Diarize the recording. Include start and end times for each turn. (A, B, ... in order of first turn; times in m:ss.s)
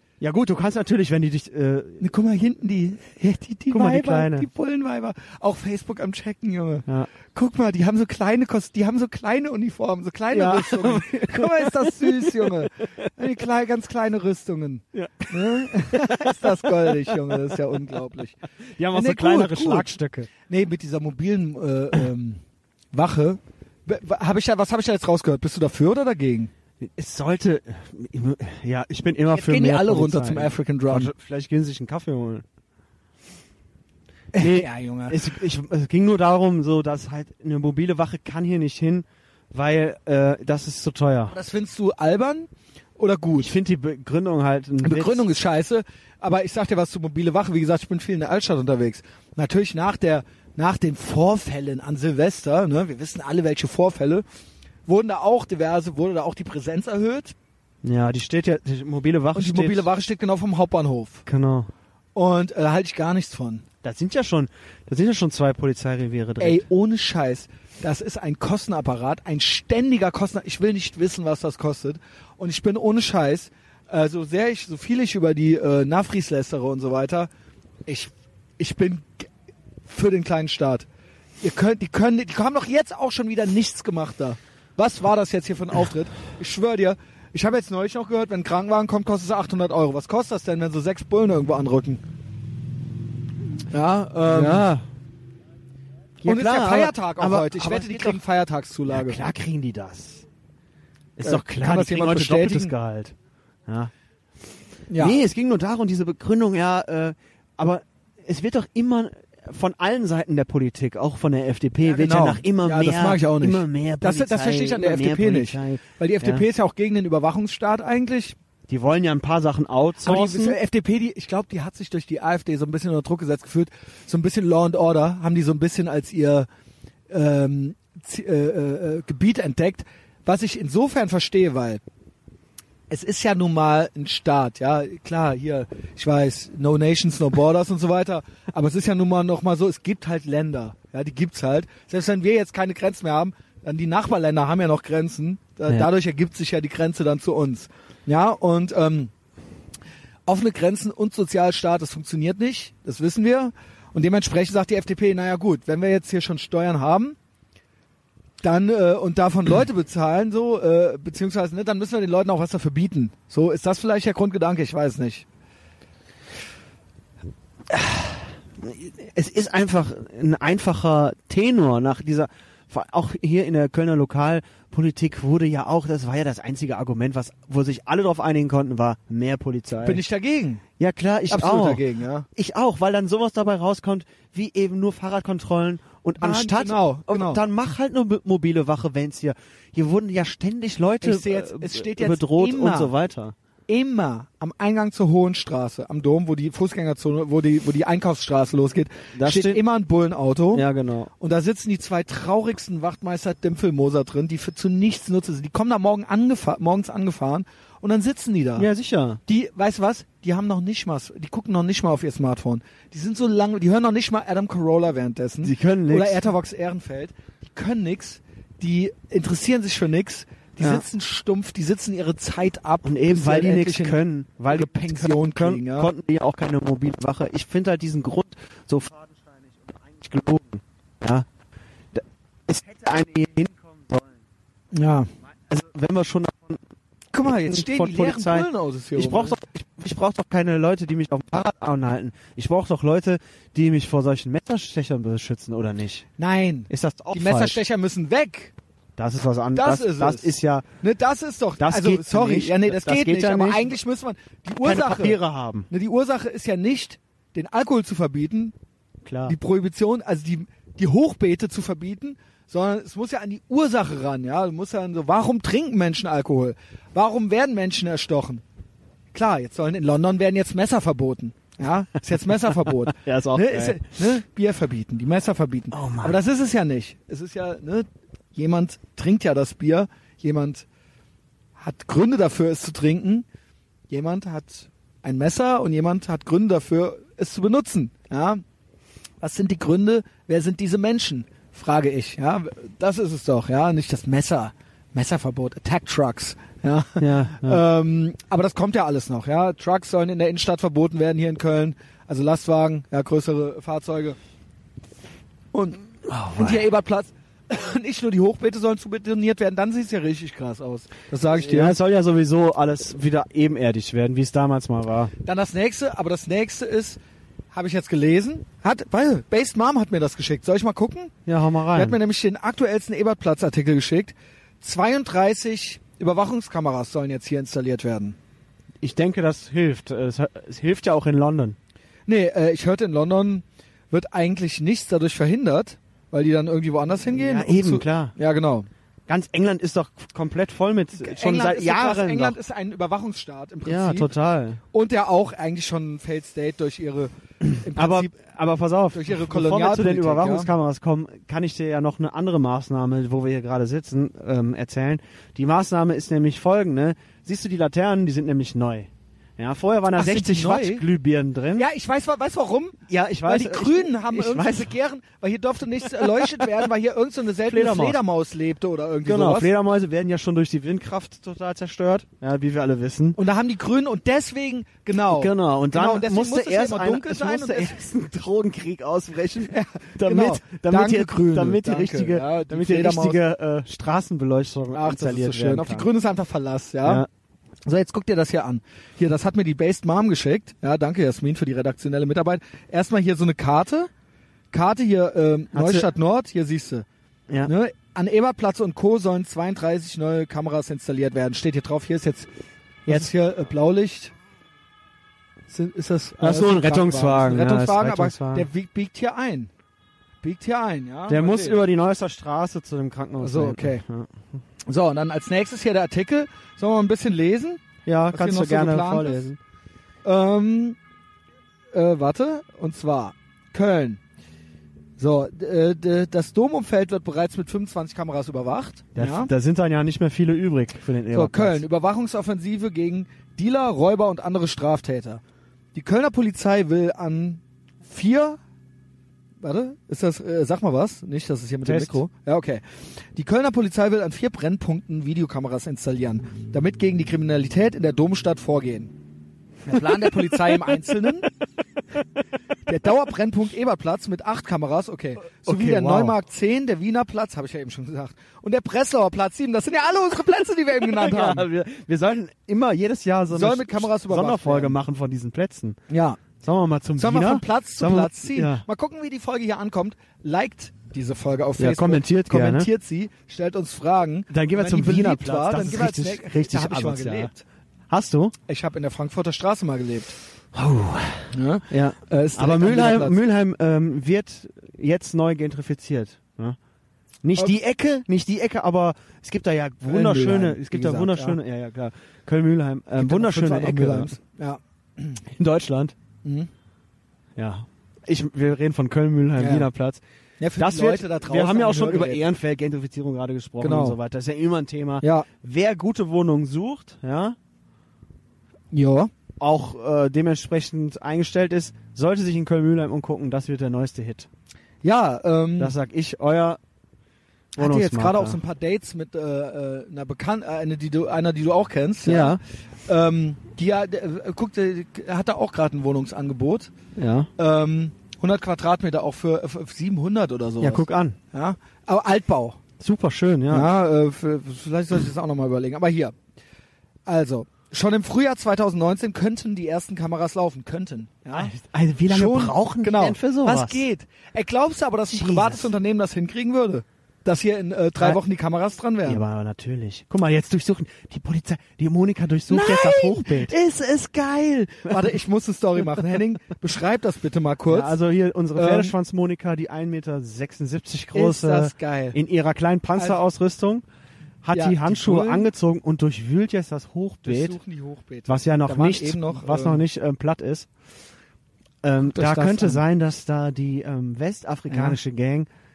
0:00.2-0:02.0 A
0:02.0-0:19.9 B
0:03.7-0:04.5 A
0:10.3-0:13.1 A
0:14.9-0:17.8 A
0:18.8-0:20.3 A
0:20.5-0:22.4 B
0:22.9-0:26.5 B
0:26.8-0:32.4 A
0:29.3-0:31.1 B
0:34.3-0:35.2 B
0:34.4-0:41.4 A
0:41.3-0:43.5 B
0:43.4-0:45.3 A
0:44.8-0:54.2 B
0:54.9-0:57.4 B
0:57.8-0:59.9 A
0:59.4-1:01.2 B
1:01.3-1:01.7 A
1:02.2-1:03.6 B
1:03.8-1:06.7 A
1:06.4-1:17.3 B
1:17.9-1:19.3 B
1:19.9-1:20.9 B
1:21.4-1:32.0 B
1:33.7-1:34.7 B
1:34.3-1:34.8 A
1:36.2-1:38.2 A
1:36.2-1:39.2 B
1:38.9-1:40.3 A
1:41.2-1:43.2 A
1:41.2-1:42.7 B
1:43.7-1:43.9 A
1:44.9-1:45.2 B
1:45.0-1:56.4 A
1:51.8-1:58.4 B
1:58.7-2:00.6 A
2:00.0-2:06.5 B
2:07.1-2:11.8 B
2:12.9-2:29.1 B
2:30.3-2:37.2 B
2:38.4-2:45.2 B
2:47.7-3:00.0 A
2:59.8-3:00.6 B
3:00.8-3:01.8 A
3:01.3-3:02.3 B
3:02.4-3:13.4 A
3:06.2-3:07.4 B
3:11.0-3:12.9 B
3:13.7-3:20.7 B
3:19.2-3:19.6 A
3:20.5-3:21.1 A
3:21.2-3:28.7 B
3:28.6-3:29.2 A
3:29.3-3:45.9 B
3:35.4-3:36.2 A
3:42.8-3:51.3 A
3:51.9-3:54.2 A
3:54.7-3:55.1 B
3:55.5-3:56.6 A
3:57.1-3:59.4 B
3:57.5-4:06.1 A
4:06.2-4:08.5 B
4:06.7-4:07.6 A
4:09.0-4:10.7 A
4:09.5-4:18.5 B
4:11.6-4:13.7 A
4:14.6-4:15.7 A
4:19.0-4:19.4 A
4:19.3-4:28.4 B
4:29.1-4:40.7 B
4:32.2-4:33.9 A
4:35.7-4:36.2 A
4:41.6-4:43.2 B
4:43.9-4:48.4 B
4:49.2-5:04.2 B
4:57.0-4:57.6 A
5:05.5-5:05.8 B
5:06.1-5:06.6 A
5:06.3-5:11.8 B
5:11.3-5:15.1 A
5:15.2-5:17.0 B
5:17.5-5:21.1 B
5:21.3-5:22.0 A
5:21.7-5:28.2 B
5:28.8-5:31.6 A
5:32.1-5:38.7 B
5:37.1-5:38.1 A
5:39.1-5:42.4 A
5:41.0-5:44.1 B
5:43.6-5:44.6 A
5:44.7-5:48.1 B
5:47.7-6:01.7 A
5:48.9-5:50.5 B
5:59.9-6:00.9 B
6:01.6-6:09.5 B
6:02.9-6:04.7 A
6:06.0-6:06.5 A
6:07.5-6:08.0 A
6:09.0-6:13.2 A
6:13.2-6:17.8 B
6:15.1-6:25.9 A
6:19.5-6:23.2 B
6:24.7-6:27.0 B
6:27.7-6:33.9 B
6:34.5-6:36.9 B
6:35.5-6:35.9 A
6:37.4-6:42.3 B
6:42.9-6:44.1 B
6:42.9-6:43.1 A
6:45.5-6:49.5 B
6:46.2-6:48.5 A
6:50.2-6:51.6 B
6:51.1-6:54.1 A
6:53.2-6:53.8 B
6:54.7-6:59.3 B
6:57.9-6:59.4 A
7:00.0-7:00.8 B
7:01.7-7:04.0 B
7:05.0-7:09.3 B
7:09.0-7:11.6 A
7:11.1-7:15.2 B
7:15.8-7:18.4 B
7:19.4-7:22.6 B
7:21.6-7:22.0 A
7:23.2-7:28.9 B
7:29.7-7:31.3 B
7:29.8-7:30.6 A
7:32.7-7:41.5 B
7:35.4-7:36.2 A
7:40.8-7:45.8 A
7:43.3-7:44.8 B
7:45.9-7:46.2 B
7:46.4-7:48.6 A
7:47.0-7:57.4 B
7:51.6-7:52.7 A
7:54.3-7:57.3 A
7:57.9-7:58.3 A
7:58.5-8:00.2 B
8:00.5-8:06.6 A
8:01.3-8:03.2 B
8:07.2-8:14.2 A
8:09.9-8:11.4 B
8:13.0-8:15.2 B
8:15.3-8:16.0 A
8:16.2-8:16.5 B
8:17.4-8:20.0 A
8:19.4-8:19.7 B
8:20.4-8:22.2 B
8:20.6-8:27.4 A
8:23.6-8:24.0 B
8:25.0-8:25.3 B
8:28.7-8:29.1 B
8:29.4-8:34.3 A
8:34.8-8:35.8 B
8:35.6-8:36.6 A
8:37.6-8:38.4 A
8:37.6-8:46.7 B
8:42.0-8:42.4 A
8:47.0-8:47.3 A
8:47.4-8:52.6 B
8:50.6-8:51.2 A
8:52.8-8:53.7 A
8:53.5-8:56.1 B
8:57.1-9:01.5 B
9:01.3-9:03.8 A
9:02.1-9:09.2 B
9:05.1-9:05.7 A
9:09.1-9:15.1 A
9:12.5-9:13.6 B
9:14.8-9:18.0 B
9:17.7-9:23.8 A
9:18.6-9:19.0 B
9:21.1-9:22.2 B
9:24.4-9:27.6 A
9:24.5-9:25.5 B
9:27.2-9:29.8 B
9:28.3-9:30.7 A
9:31.8-9:35.5 A
9:32.1-9:32.8 B
9:34.7-9:35.0 B